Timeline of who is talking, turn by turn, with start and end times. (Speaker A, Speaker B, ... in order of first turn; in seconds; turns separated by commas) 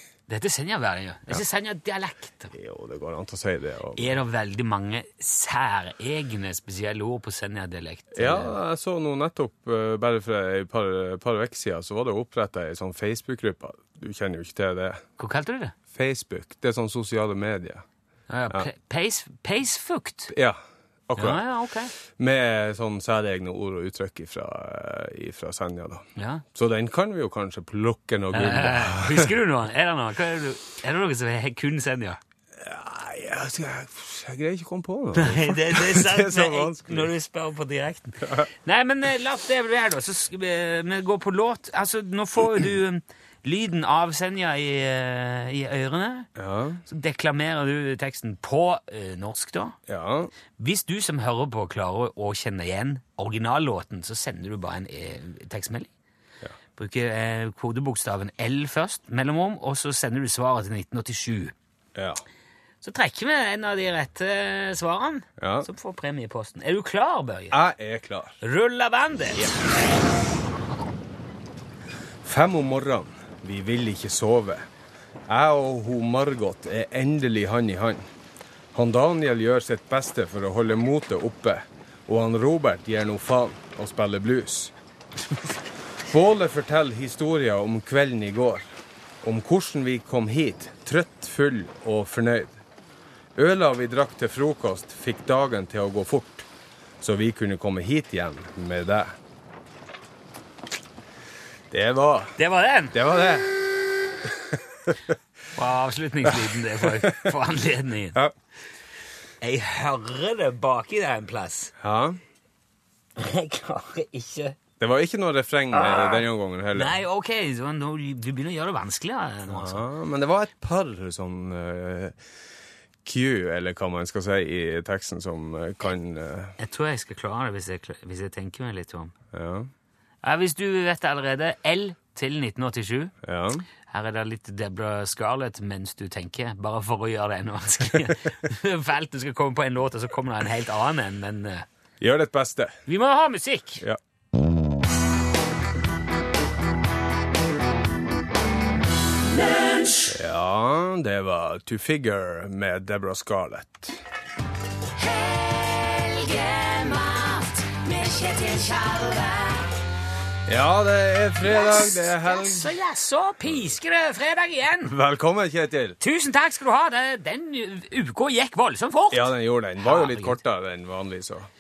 Speaker A: 0.3-2.5, Speaker B: 2.5-4.2, Speaker A: 4.0-8.6, Speaker B: 8.1-15.0, Speaker A: 15.2-15.7, Speaker B: 15.9-17.8, Speaker A: 18.3-20.3, Speaker B: 20.3-21.4, Speaker A: 21.2-21.9, Speaker B: 22.1-29.3, Speaker A: 26.1-26.4, Speaker A: 28.3-32.2, Speaker B: 32.6-37.1, Speaker A: 35.1-46.3, Speaker B: 38.2-38.5, Speaker B: 46.4-46.8, Speaker A: 46.9-49.8, Speaker B: 49.9-50.3, Speaker A: 50.6-55.9, Speaker A: 56.8-61.5, Speaker B: 61.9-62.2, Speaker A: 62.8-67.6, Speaker B: 65.4-65.7, Speaker B: 67.5-68.4, Speaker A: 68.4-69.5, Speaker B: 72.2-74.7, Speaker B: 75.3-78.1, Speaker B: 78.7-84.7, Speaker B: 86.0-92.6, Speaker B: 93.3-96.5, Speaker B: 97.0-99.1, Speaker B: 101.7-102.4, Speaker A: 102.4-103.0, Speaker B: 102.9-103.6, Speaker B: 104.2-105.1, Speaker A: 105.5-108.2, Speaker B: 106.2-107.3, Speaker A: 109.4-111.7, Speaker B: 111.8-112.2, Speaker A: 113.2-114.6, Speaker B: 114.8-116.9, Speaker A: 115.8-116.2, Speaker A: 116.7-119.8, Speaker B: 119.5-122.2, Speaker B: 123.0-126.5, Speaker A: 126.6-129.1, Speaker B: 129.3-129.7, Speaker A: 130.2-133.1, Speaker B: 133.2-133.6, Speaker A: 133.9-141.7, Speaker B: 142.0-142.8, Speaker A: 142.8-143.8, Speaker B: 150.1-154.0, Speaker A: 155.0-159.7, Speaker B: 160.5-162.7, Speaker A: 161.4-164.9, Speaker B: 164.8-166.0, Speaker A: 166.0-170.4, Speaker B: 169.1-171.5